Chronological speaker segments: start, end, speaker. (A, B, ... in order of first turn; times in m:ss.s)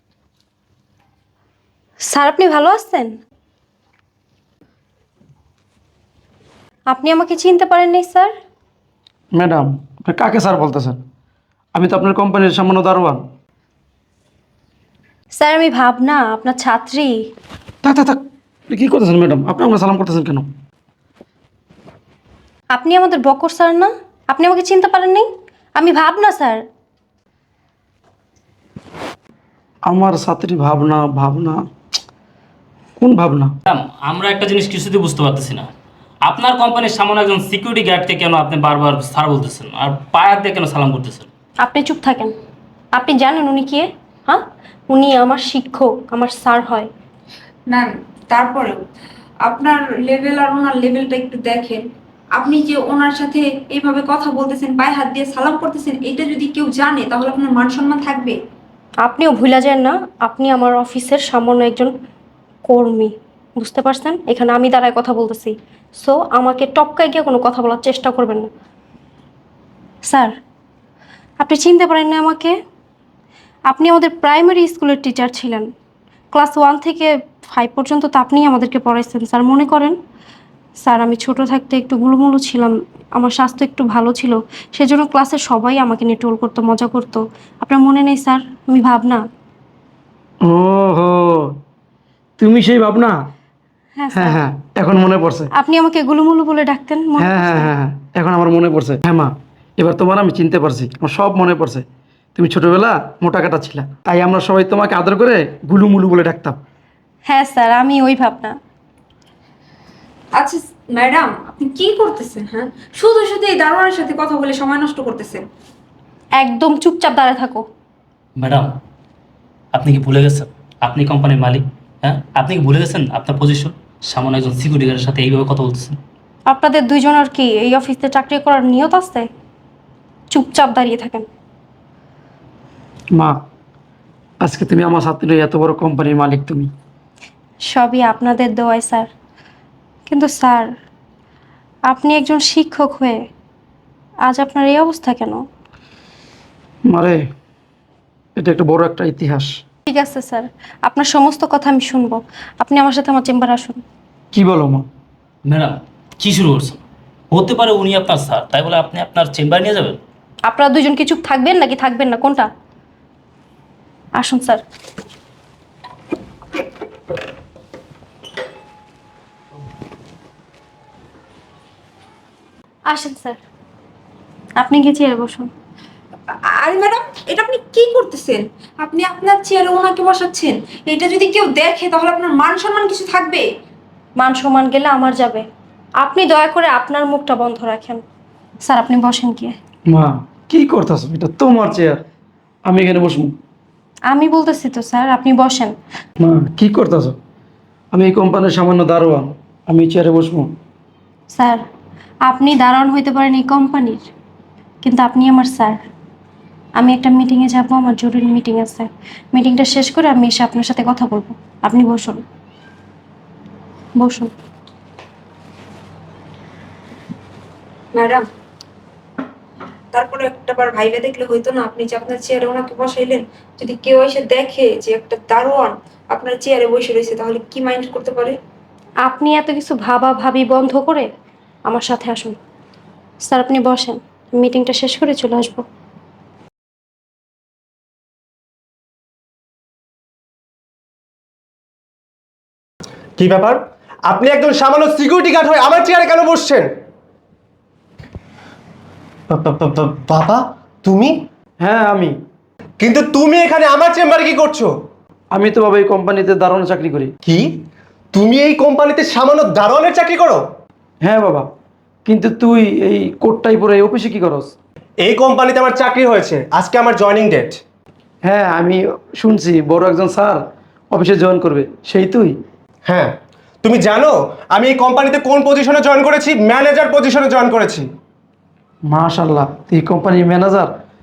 0:02.1-0:03.2 A
0:06.9-0:08.3 A
0:09.3-0:11.0 B
0:11.8-0:13.2 B
0:15.4-0:17.1 A
0:17.8-0:20.5 B
0:22.7-0:26.6 A
0:29.9-0:31.6 B
0:33.0-0:33.6 B
0:33.7-0:35.7 C
0:36.2-0:41.3 C
0:41.6-0:42.3 A
0:42.9-0:46.9 A
0:47.7-0:48.8 D
0:49.4-0:58.4 D
0:59.0-1:01.9 A
1:02.7-1:08.5 A
1:10.1-1:10.4 A
1:11.4-1:12.5 A
1:13.7-1:15.7 A
1:16.3-1:20.0 A
1:20.8-1:29.2 A
1:30.4-1:31.6 B
1:32.4-1:33.2 B
1:34.0-1:34.4 A
1:34.1-1:35.5 B
1:35.6-1:37.7 A
1:37.2-1:46.6 B
1:47.3-1:48.5 A
1:50.4-1:55.4 D
1:56.4-1:57.6 A
1:58.4-1:58.7 C
1:59.7-2:06.0 C
2:06.5-2:09.3 A
2:10.3-2:11.3 A
2:13.1-2:13.4 B
2:14.4-2:16.7 B
2:17.7-2:19.1 A
2:20.1-2:20.7 A
2:21.9-2:23.2 A
2:24.2-2:25.4 A
2:26.9-2:27.3 B
2:28.4-2:29.6 B
2:29.9-2:33.8 A
2:34.3-2:34.9 B
2:35.5-2:40.0 C
2:40.5-2:42.5 A
2:44.2-2:44.6 A
2:52.9-2:53.4 A
2:54.6-2:55.5 A
2:56.3-3:03.5 D
3:04.2-3:05.4 A
3:06.0-3:08.0 A
3:08.6-3:09.6 A
3:09.9-3:12.0 B
3:12.7-3:13.4 B
3:14.1-3:15.7 A
3:16.2-3:17.2 B
3:17.9-3:20.5 B
3:21.3-3:21.6 A
3:22.3-3:24.1 A
3:24.8-3:25.8 A
3:26.8-3:32.2 A
3:34.0-3:34.3 A
3:37.9-3:38.2 D
3:39.9-3:48.4 D
3:49.0-3:51.1 A
3:51.7-3:52.4 A
3:53.2-3:55.6 A
4:03.2-4:06.7 E
4:09.3-4:11.1 E
4:11.6-4:12.2 B
4:12.8-4:14.7 E
4:15.3-4:17.1 B
4:17.2-4:17.5 E
4:18.1-4:20.4 E
4:21.0-4:21.5 B
4:22.0-4:24.5 B
4:25.0-4:27.6 E
4:28.2-4:32.4 B
4:32.9-4:37.9 E
4:38.9-4:40.8 B